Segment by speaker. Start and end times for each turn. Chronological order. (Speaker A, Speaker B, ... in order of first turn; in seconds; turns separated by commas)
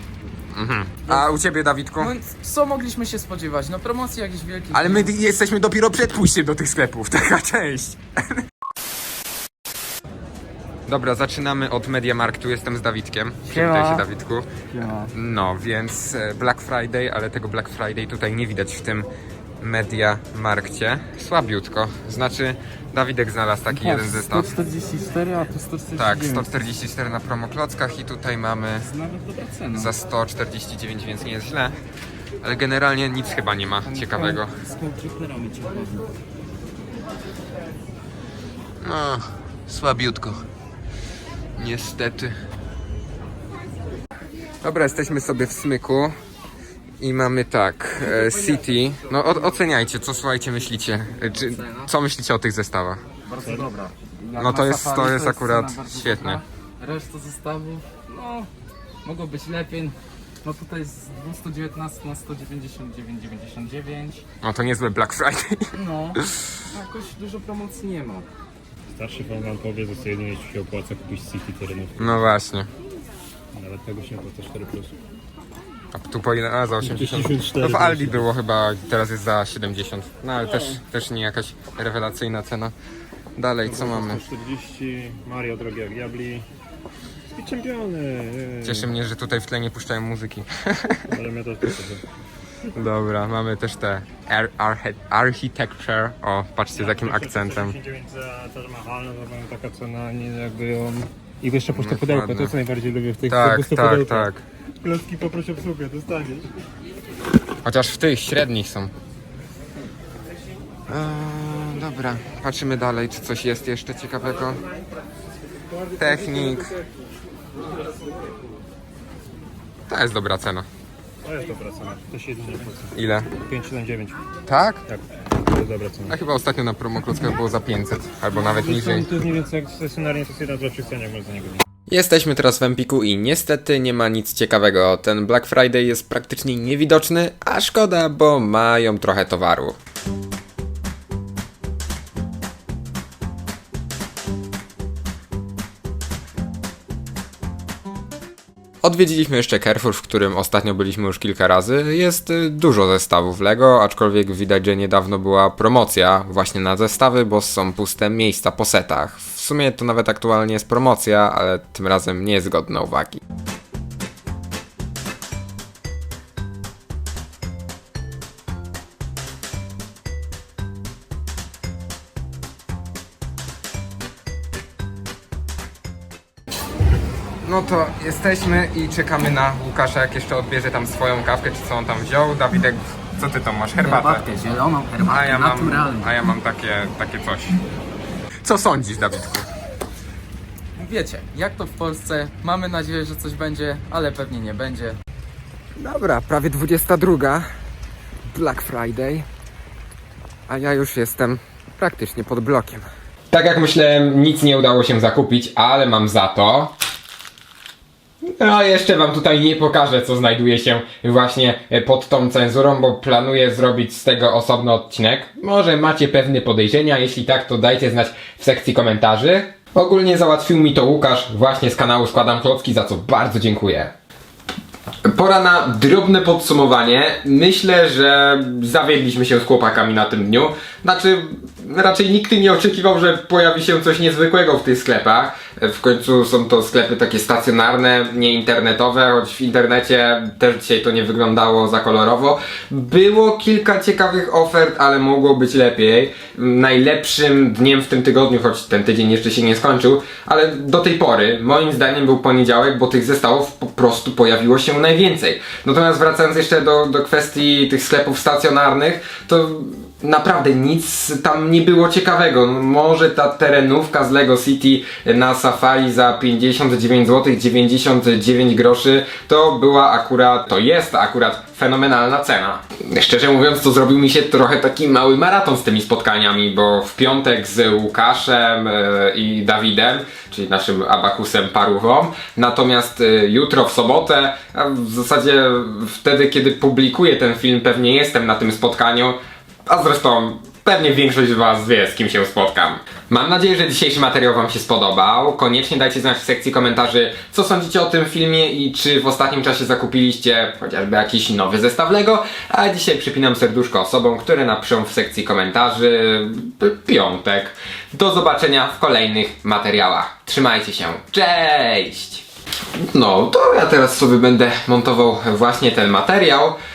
Speaker A: 0.5-2.1, Speaker B: 2.0-5.1, Speaker A: 4.7-8.4, Speaker A: 10.9-14.5, Speaker B: 13.5-14.1, Speaker B: 14.7-15.1, Speaker A: 15.1-19.1, Speaker A: 19.6-24.6, Speaker B: 23.7-26.5, Speaker A: 25.9-28.9, Speaker B: 28.8-29.9, Speaker A: 29.7-31.8, Speaker A: 32.4-34.6, Speaker B: 33.8-36.1, Speaker A: 38.8-40.5, Speaker A: 41.6-42.4, Speaker A: 44.6-46.1, Speaker A: 47.0-53.0, Speaker B: 48.1-48.6, Speaker B: 51.3-51.9, Speaker B: 53.3-58.5, Speaker A: 54.4-56.4, Speaker B: 59.0-64.2, Speaker A: 64.4-66.5, Speaker B: 65.8-68.3, Speaker C: 68.9-72.2, Speaker A: 72.0-72.7, Speaker C: 73.5-74.9, Speaker A: 75.9-82.7, Speaker C: 76.8-78.3, Speaker A: 83.4-84.2, Speaker C: 83.6-86.5, Speaker C: 87.3-88.9, Speaker A: 88.6-91.2, Speaker C: 91.1-92.0, Speaker A: 92.7-97.8, Speaker C: 96.8-104.3, Speaker A: 101.7-102.5, Speaker A: 103.3-104.4, Speaker C: 104.8-106.5, Speaker A: 107.6-108.9, Speaker A: 110.9-114.6, Speaker A: 116.0-116.8, Speaker A: 119.9-120.7, Speaker C: 121.2-124.2, Speaker A: 122.9-123.3, Speaker A: 124.5-124.8, Speaker C: 124.9-126.2, Speaker A: 126.1-129.1, Speaker C: 128.3-131.6, Speaker A: 131.9-139.8, Speaker A: 148.8-163.2, Speaker A: 177.4-184.3, Speaker B: 183.8-186.1, Speaker A: 185.0-187.6, Speaker A: 188.4-189.5, Speaker B: 190.8-195.0, Speaker A: 195.8-197.5, Speaker A: 198.3-199.3, Speaker A: 200.5-206.7, Speaker A: 208.4-223.9, Speaker A: 225.1-312.2, Speaker A: 312.8-316.6